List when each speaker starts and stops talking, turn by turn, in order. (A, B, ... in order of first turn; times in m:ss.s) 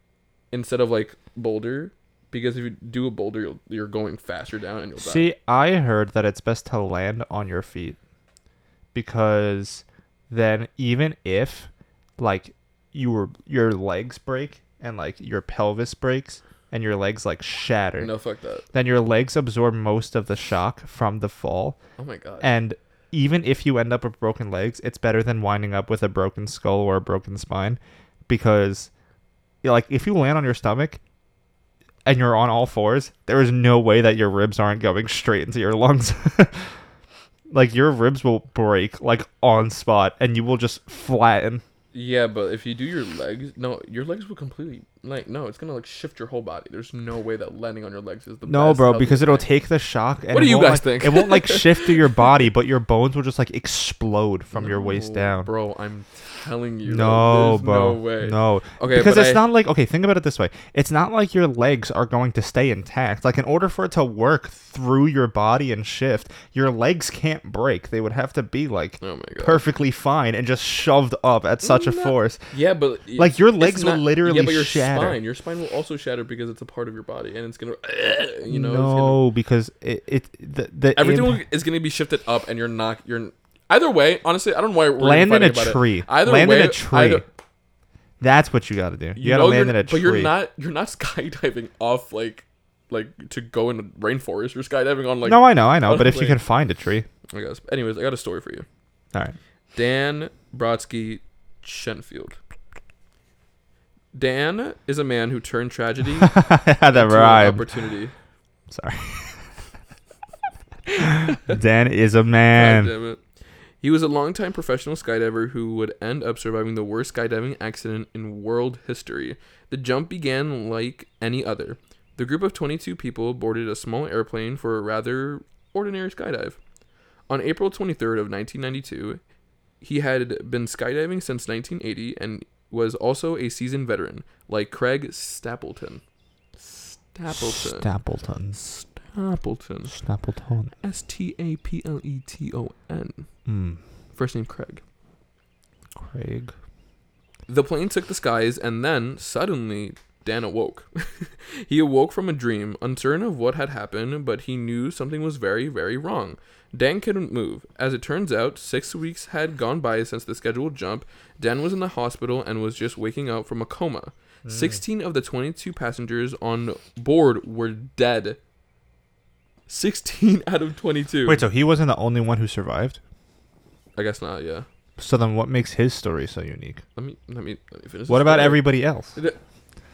0:00.5-0:05.2 A
0:05.0-0:08.0 B
0:08.9-0:18.1 B
0:18.0-0:18.6 A
0:18.7-0:21.8 B
0:22.0-0:22.5 A
0:22.4-0:28.9 B
0:29.6-0:31.0 B
0:32.0-0:36.7 B
0:37.5-0:41.6 B
0:41.9-0:49.4 A
0:48.4-0:55.5 B
0:50.3-0:52.2 A
0:54.5-0:59.4 A
0:56.8-1:12.5 B
1:09.0-1:09.6 A
1:11.6-1:19.2 A
1:13.2-1:15.2 B
1:18.5-1:21.4 B
1:20.9-1:27.2 A
1:25.0-1:27.2 B
1:28.2-1:30.3 B
1:29.2-1:36.4 A
1:35.2-1:37.1 B
1:37.3-1:38.6 A
1:39.7-1:42.4 A
1:44.1-1:46.4 A
1:46.2-1:47.6 B
1:46.9-1:48.1 A
1:48.7-1:49.4 B
1:51.0-1:52.9 B
1:51.2-1:51.6 A
1:52.5-1:53.2 A
1:53.8-2:06.6 A
2:07.3-2:09.2 A
2:09.8-2:16.0 A
2:16.6-2:17.9 A
2:17.3-2:18.6 B
2:18.5-2:19.9 A
2:19.9-2:20.7 B
2:20.8-2:23.3 A
2:23.4-2:23.8 B
2:24.1-2:24.8 A
2:26.0-2:26.5 B
2:27.5-2:48.4 A
2:44.4-2:44.8 B
2:49.7-2:51.4 A
2:51.2-2:53.0 B
2:54.0-2:54.6 A
2:55.0-2:56.8 B
2:57.0-2:59.4 A
2:58.1-2:59.2 B